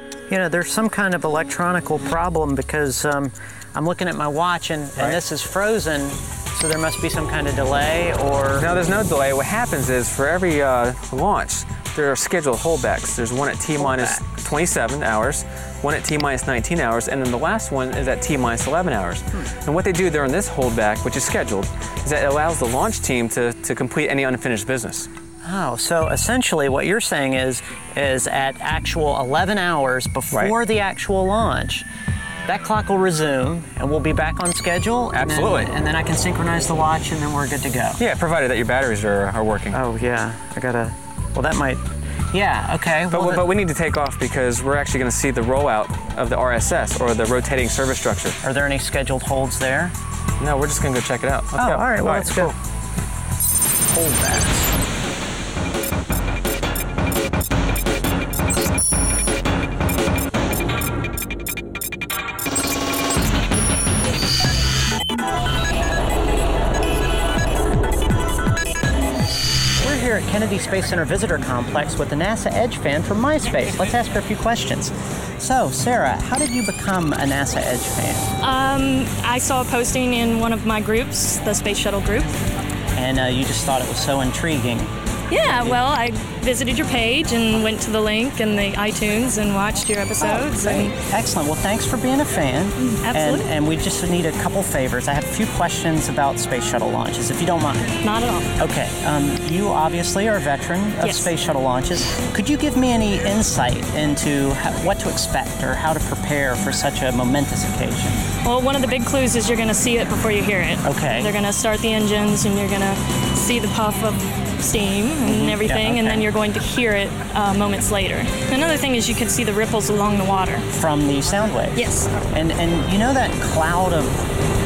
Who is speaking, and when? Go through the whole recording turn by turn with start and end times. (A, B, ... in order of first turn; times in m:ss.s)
0:00.3-0:08.7 A
0:08.6-0:25.1 B
0:13.8-0:14.2 A
0:25.4-0:31.9 A
0:32.5-0:38.0 A
0:35.1-0:35.7 B
0:38.0-0:39.8 B
0:39.7-0:43.5 A
0:43.1-0:48.4 B
0:48.4-0:50.0 A
0:50.4-0:52.6 B
0:51.6-0:52.6 A
0:53.9-0:54.6 A
1:09.8-1:18.3 A
1:18.4-1:22.4 C
1:23.0-1:25.8 A
1:25.3-1:31.0 C
1:30.2-1:38.0 A
1:32.8-1:33.5 C
1:38.0-1:38.6 C
1:38.6-1:48.3 A
1:41.0-1:41.3 C
1:48.4-2:00.6 C
1:50.8-1:51.3 A
1:55.2-1:56.3 A
2:00.7-2:04.2 A
2:01.8-2:02.1 C